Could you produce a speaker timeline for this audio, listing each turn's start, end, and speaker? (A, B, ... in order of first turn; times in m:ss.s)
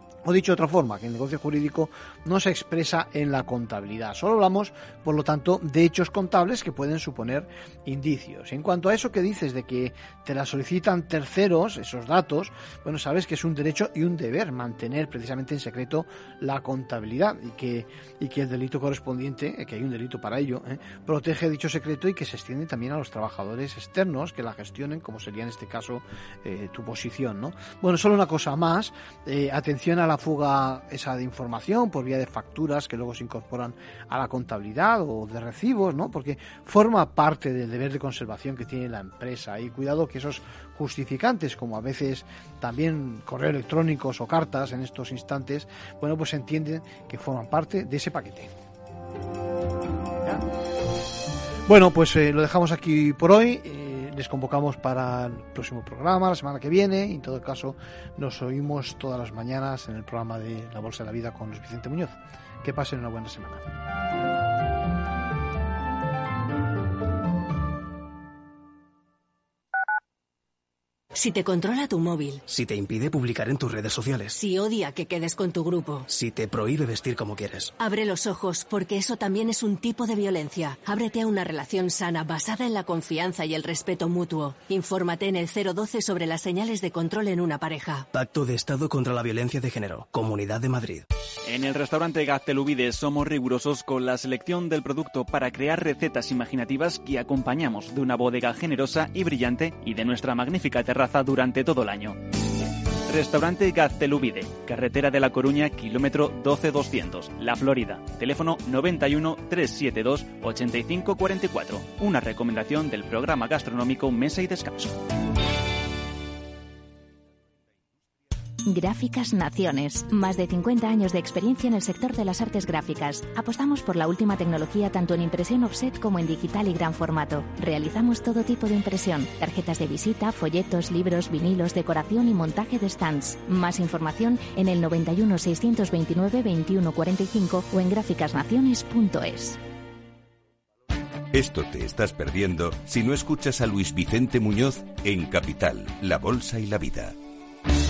0:00.2-0:48.5 A
0:51.6-1:03.6 A
1:11.2-1:12.4 B
1:12.5-1:14.4 C
1:14.3-1:16.0 B
1:16.1-1:17.7 C
1:17.8-1:28.0 B
1:28.1-1:31.0 C
1:31.4-1:42.2 D
1:43.1-1:55.0 D
1:58.6-2:19.6 E
2:21.3-2:27.1 F